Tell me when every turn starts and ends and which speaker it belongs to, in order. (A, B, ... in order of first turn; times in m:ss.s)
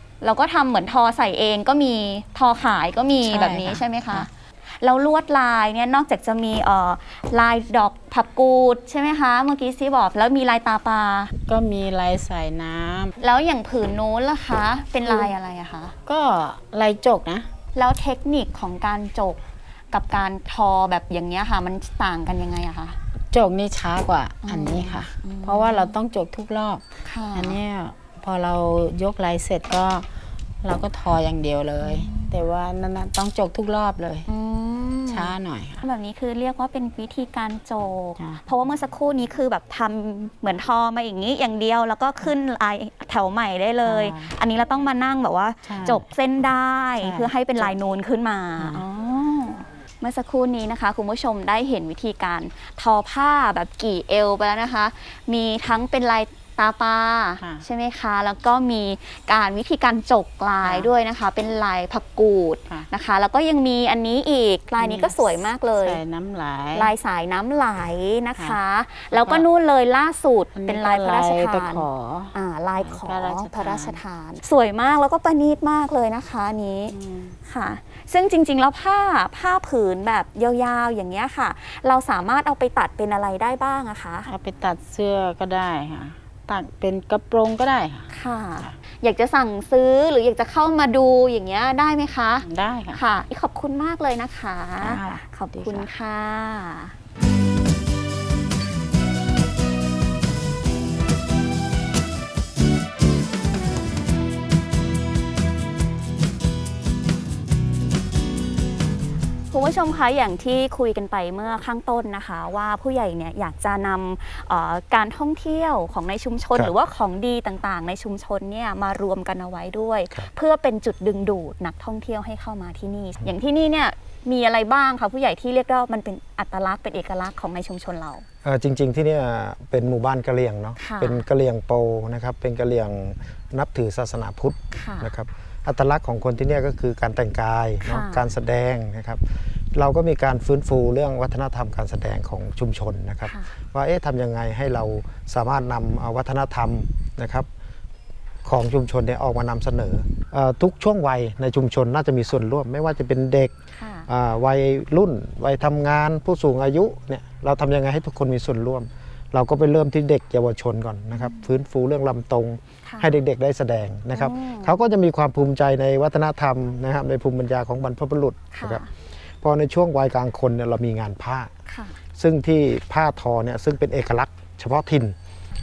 0:00.2-0:04.3 A
0:03.2-0:04.3 B
0:04.8-0:11.3 A
0:11.5-0:13.1 B
0:13.2-0:15.9 A
0:15.0-0:15.3 B
0:16.0-0:17.5 B
0:17.7-0:19.4 A
0:19.9-0:23.0 A
0:23.3-0:30.1 B
0:24.4-0:25.9 A
0:27.0-0:27.6 A
0:30.6-0:34.2 B
0:31.8-0:32.4 A
0:34.3-1:06.0 A
0:35.1-0:35.8 B
0:38.2-0:38.4 B
0:43.8-0:44.4 B
0:45.6-0:46.0 B
0:47.0-0:47.8 B
0:48.6-0:48.8 B
0:57.4-0:57.6 B
1:00.6-1:00.9 B
1:04.8-1:06.9 B
1:06.7-1:16.9 A
1:08.4-1:09.5 B
1:10.5-1:14.0 B
1:16.9-1:17.4 B
1:17.4-1:24.3 A
1:24.2-1:28.1 B
1:28.1-1:36.9 A
1:32.4-1:33.0 B
1:34.8-1:35.9 B
1:49.5-2:08.2 A
2:08.4-2:19.2 C
2:10.8-2:11.2 A
2:14.8-2:15.1 A
2:17.8-2:18.2 A
2:19.7-2:27.5 C
2:28.4-2:33.5 C
2:33.8-2:34.1 A
2:34.1-2:48.8 C
2:41.2-2:41.4 A
2:44.1-2:44.7 A
2:48.5-2:48.9 A
2:49.4-2:51.5 C
2:51.7-2:52.0 A
2:52.2-2:55.1 C